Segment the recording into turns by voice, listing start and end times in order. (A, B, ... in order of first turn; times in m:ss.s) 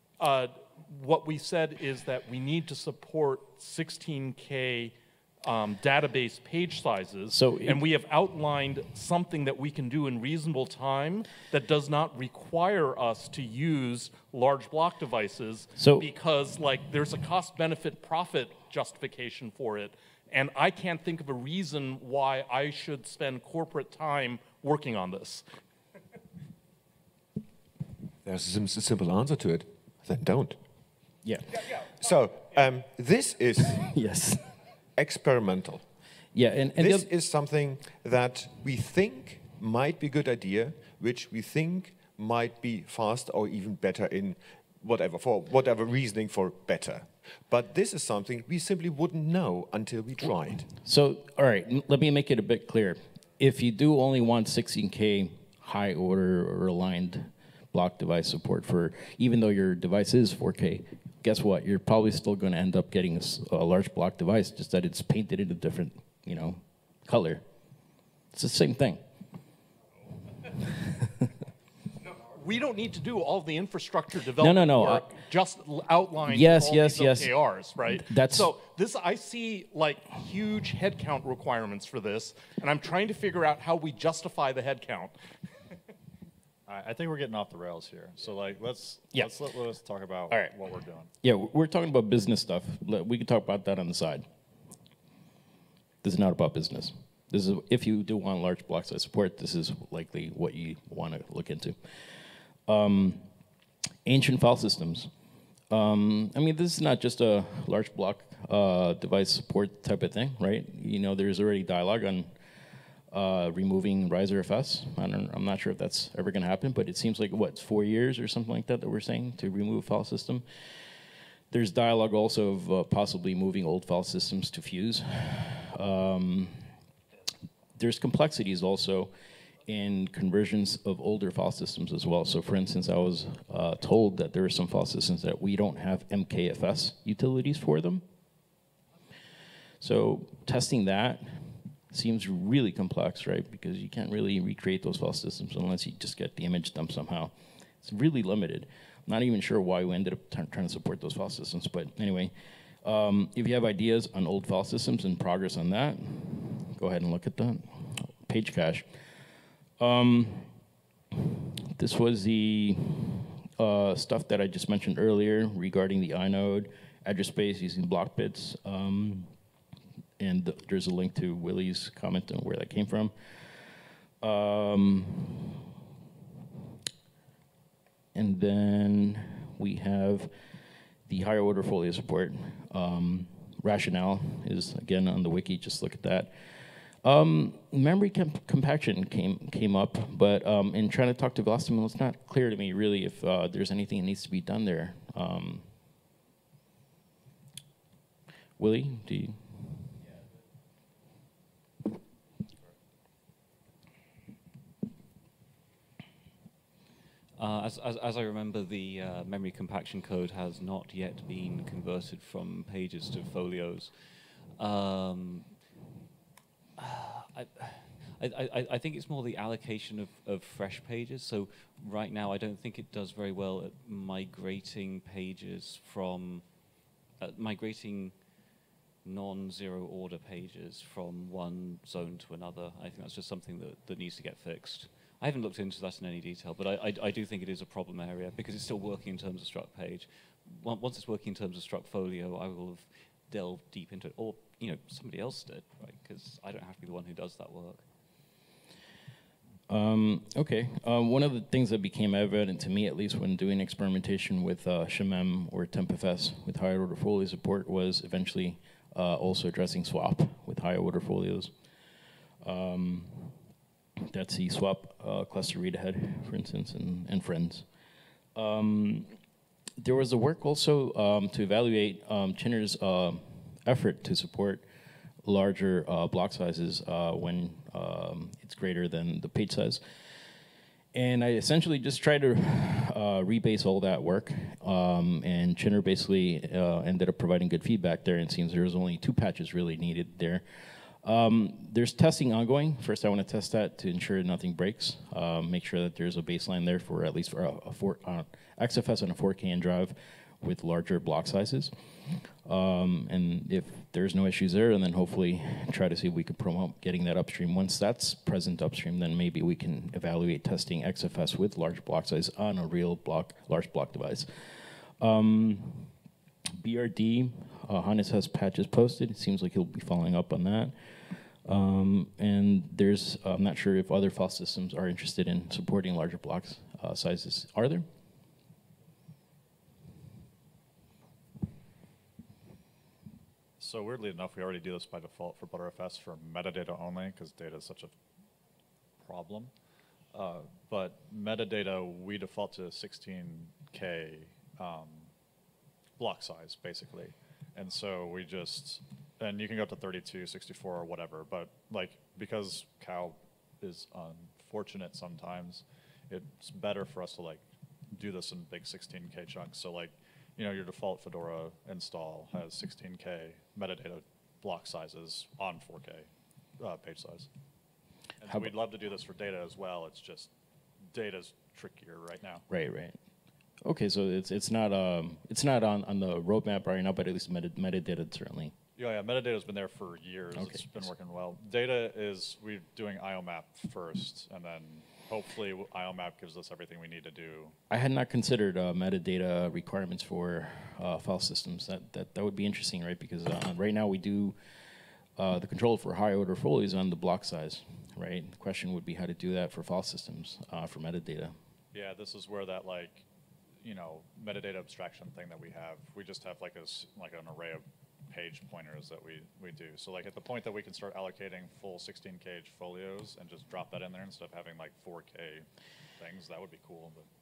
0:00.2-0:25.4 A
0:07.3-0:07.8 B
0:15.8-0:16.1 B
0:28.2-0:30.6 C
0:31.2-0:31.6 B
0:31.9-0:33.9 C
0:33.9-0:34.5 B
0:35.0-0:35.8 C
0:36.4-0:37.1 B
0:36.8-0:50.7 C
0:50.8-1:07.4 B
1:08.3-1:09.0 B
1:12.0-1:25.2 A
1:14.4-1:15.1 B
1:16.3-1:17.3 B
1:17.9-1:18.5 B
1:26.7-1:31.1 D
1:31.2-1:34.3 B
1:36.0-1:42.0 B
1:42.7-1:43.3 B
1:44.0-1:45.1 B
1:45.7-1:52.3 B
1:53.1-2:00.4 B
2:01.5-2:06.7 B
2:07.8-2:09.1 B
2:09.7-2:18.0 B
2:19.8-2:38.9 B
2:39.8-2:40.5 B
2:41.1-2:49.3 B
2:50.2-2:53.1 B
2:54.2-2:55.6 B
2:58.1-3:00.3 B
3:01.1-3:15.7 B
3:18.6-3:19.9 B
3:27.4-3:33.9 E
3:34.6-3:35.5 E
3:36.8-3:46.6 E
3:47.2-3:48.3 E
3:49.0-4:07.8 E
4:09.7-4:21.5 B
4:22.4-4:23.4 B
4:24.1-4:27.7 B
4:28.4-4:29.2 B
4:29.8-4:34.6 B
4:35.2-4:39.8 B
4:40.9-5:01.7 B
5:02.4-5:15.9 B
5:16.6-5:27.9 B
5:33.6-5:38.0 D
5:39.0-5:39.5 D
5:40.1-5:45.1 D
5:46.0-5:57.4 D
5:57.9-6:06.1 D
6:06.6-6:07.3 D
6:08.2-6:10.3 D
6:08.3-6:08.6 B
6:10.9-6:12.4 D
6:12.5-6:13.0 B
6:13.6-6:18.5 B
6:18.8-6:27.5 D
6:20.3-6:20.9 B
6:27.7-6:34.4 B
6:35.2-6:41.4 B
6:41.7-6:43.0 D
6:43.6-6:55.5 D
6:56.0-6:57.1 D